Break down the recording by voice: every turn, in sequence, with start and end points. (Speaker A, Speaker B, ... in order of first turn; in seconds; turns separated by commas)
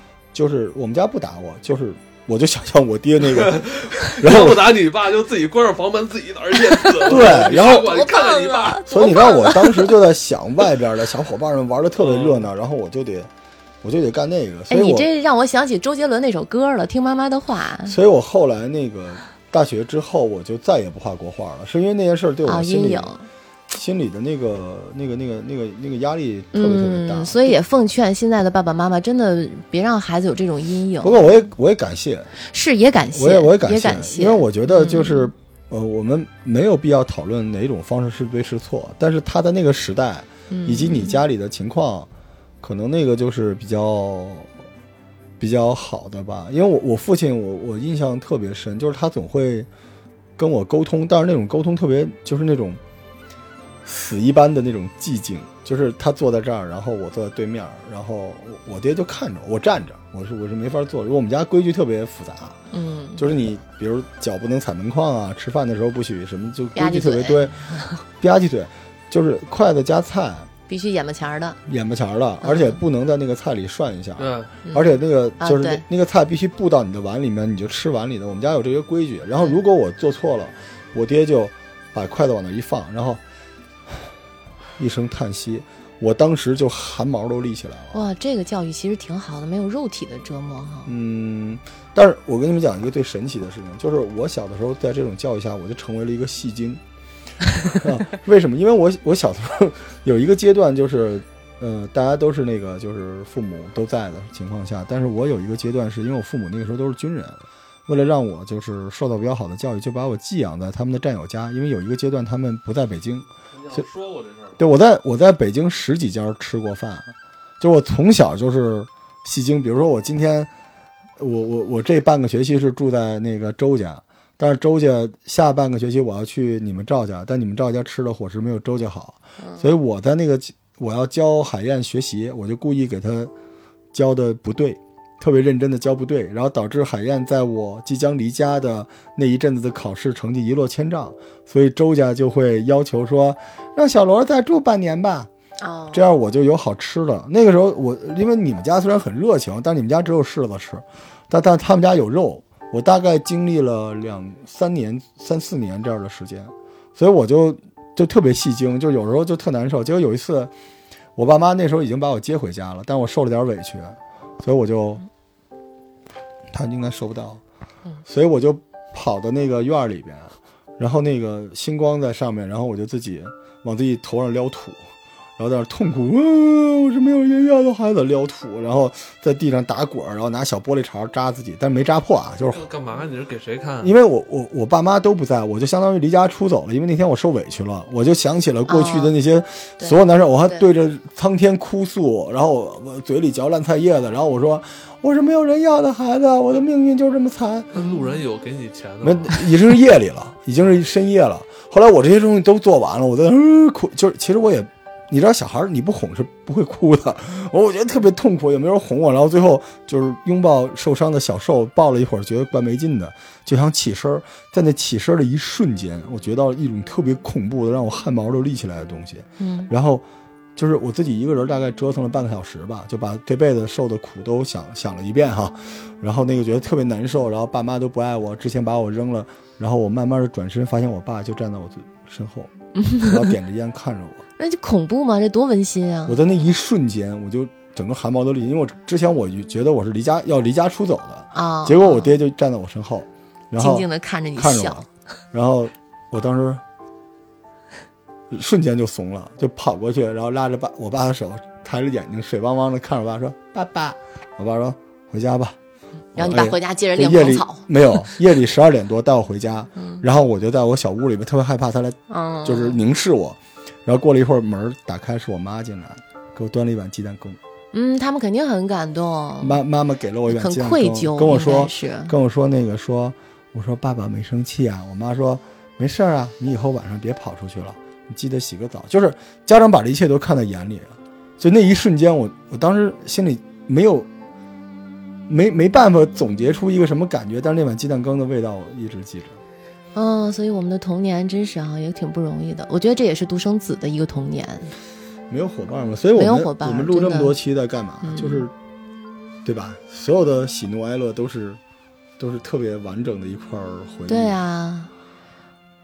Speaker A: 0.3-4.7, Speaker B: 3.2-9.3, Speaker C: 6.8-9.9, Speaker A: 7.0-7.9, Speaker A: 8.9-13.3, Speaker B: 12.0-12.5, Speaker A: 13.8-15.1, Speaker C: 14.7-17.9, Speaker A: 17.9-23.1, Speaker C: 22.5-23.2, Speaker A: 23.7-27.6, Speaker C: 26.5-31.2, Speaker A: 31.0-32.4, Speaker C: 32.5-35.3, Speaker A: 33.1-42.1, Speaker C: 40.5-41.2, Speaker A: 42.6-44.5, Speaker A: 45.4-49.7, Speaker A: 50.4-52.8, Speaker A: 53.8-62.6, Speaker C: 62.7-63.3, Speaker A: 63.2-70.5, Speaker C: 66.8-68.0, Speaker C: 70.7-71.6, Speaker A: 71.7-83.2, Speaker C: 72.4-72.8, Speaker B: 74.2-74.5, Speaker C: 74.7-75.8, Speaker A: 84.8-88.0, Speaker C: 87.9-90.9, Speaker A: 90.9-96.8, Speaker A: 97.6-113.8, Speaker B: 113.5-114.6, Speaker A: 114.6-120.5, Speaker A: 121.2-133.3, Speaker C: 129.4-129.7, Speaker A: 133.9-145.3, Speaker C: 145.6-146.2, Speaker A: 145.9-160.5, Speaker A: 161.2-165.1, Speaker A: 166.5-167.4, Speaker A: 168.1-174.8, Speaker A: 175.4-182.7, Speaker B: 182.5-183.9, Speaker A: 183.8-197.7, Speaker C: 188.7-189.2, Speaker C: 189.8-190.7, Speaker B: 197.7-199.5, Speaker A: 199.0-220.0, Speaker C: 219.4-219.7, Speaker A: 220.6-232.5, Speaker C: 232.8-233.3, Speaker A: 233.0-234.2, Speaker C: 234.4-236.2, Speaker A: 236.1-246.6, Speaker C: 241.3-242.2, Speaker C: 243.6-244.8, Speaker A: 248.3-255.6, Speaker C: 256.1-257.7, Speaker A: 256.1-267.4, Speaker C: 259.8-260.0, Speaker C: 262.1-262.8, Speaker C: 267.7-269.6, Speaker A: 269.4-284.1, Speaker C: 270.3-272.1, Speaker A: 285.3-289.4, Speaker C: 289.9-294.7, Speaker A: 295.3-298.5, Speaker C: 296.2-297.4, Speaker C: 298.0-298.5, Speaker A: 299.4-301.6, Speaker A: 302.2-304.4, Speaker C: 304.1-304.9